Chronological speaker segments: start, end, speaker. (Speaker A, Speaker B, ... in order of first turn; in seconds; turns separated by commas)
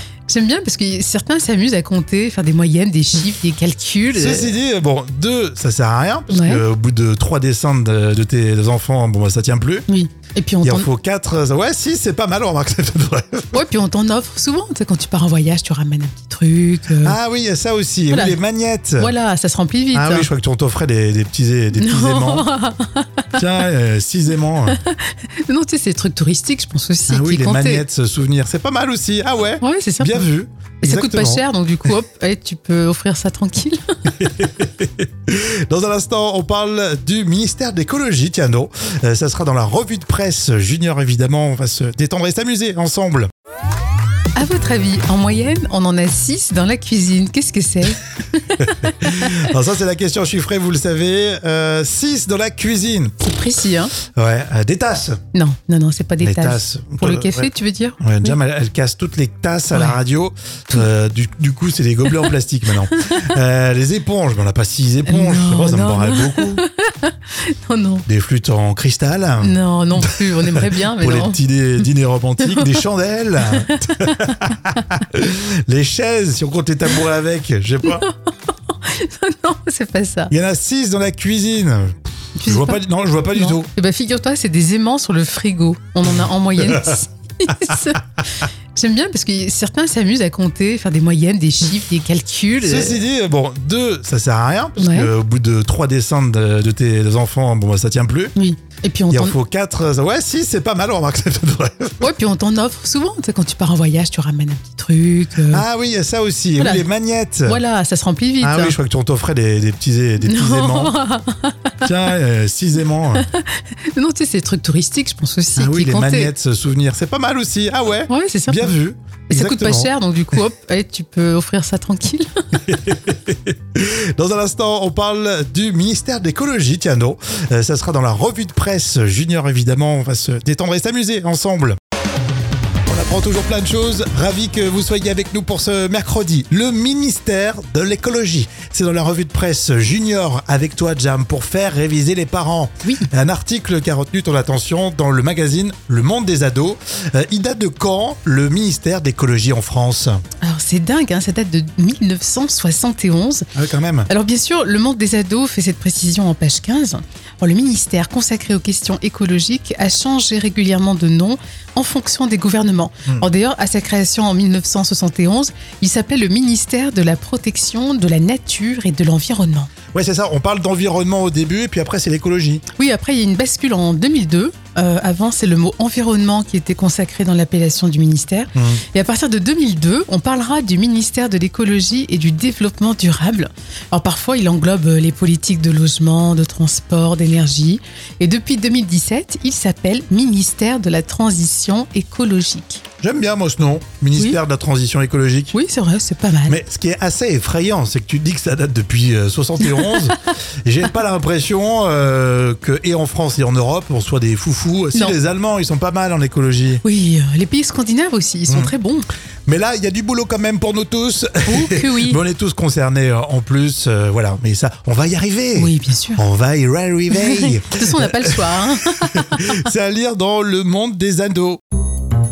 Speaker A: 0.3-4.5, Speaker B: 4.1-9.8, Speaker A: 6.3-6.6, Speaker A: 9.9-10.9, Speaker B: 10.6-13.6, Speaker A: 13.5-17.2, Speaker B: 17.0-19.1, Speaker A: 18.1-18.4, Speaker A: 19.0-20.3, Speaker B: 19.9-22.5, Speaker A: 21.8-23.4, Speaker B: 23.3-24.8, Speaker A: 24.7-27.8, Speaker B: 27.1-31.4, Speaker A: 29.6-30.3, Speaker A: 30.8-33.8, Speaker B: 34.2-43.3, Speaker A: 44.3-49.4, Speaker B: 48.6-53.2, Speaker A: 53.2-53.9, Speaker B: 54.1-55.2, Speaker A: 55.3-58.3, Speaker B: 56.2-57.5, Speaker B: 58.0-66.6, Speaker A: 59.7-60.0, Speaker A: 62.9-63.3, Speaker A: 65.0-68.0, Speaker B: 68.1-78.0, Speaker A: 69.4-71.8, Speaker A: 72.4-72.8, Speaker A: 73.5-74.1, Speaker A: 78.7-80.3, Speaker B: 80.3-83.7, Speaker A: 82.4-82.8, Speaker A: 83.3-93.0, Speaker B: 92.6-98.3, Speaker A: 94.8-95.1, Speaker A: 98.3-99.3, Speaker B: 99.1-102.1, Speaker A: 102.0-105.6, Speaker B: 105.5-107.6, Speaker A: 106.6-106.8, Speaker A: 107.4-108.8, Speaker B: 108.4-111.0, Speaker A: 110.2-111.7, Speaker B: 111.8-113.2, Speaker A: 113.2-116.3, Speaker B: 115.6-119.9, Speaker A: 118.1-118.7, Speaker A: 119.3-122.3, Speaker B: 122.7-131.8, Speaker B: 132.9-150.2, Speaker A: 150.4-153.5, Speaker B: 153.5-154.1, Speaker A: 154.1-169.7, Speaker B: 169.9-172.6, Speaker A: 172.7-192.8, Speaker B: 178.6-178.8, Speaker B: 193.0-195.5, Speaker A: 195.5-196.6, Speaker B: 196.5-206.8, Speaker A: 206.8-209.1, Speaker B: 209.5-218.5, Speaker A: 211.4-212.2, Speaker A: 215.6-216.2, Speaker A: 217.1-219.6, Speaker B: 219.1-221.6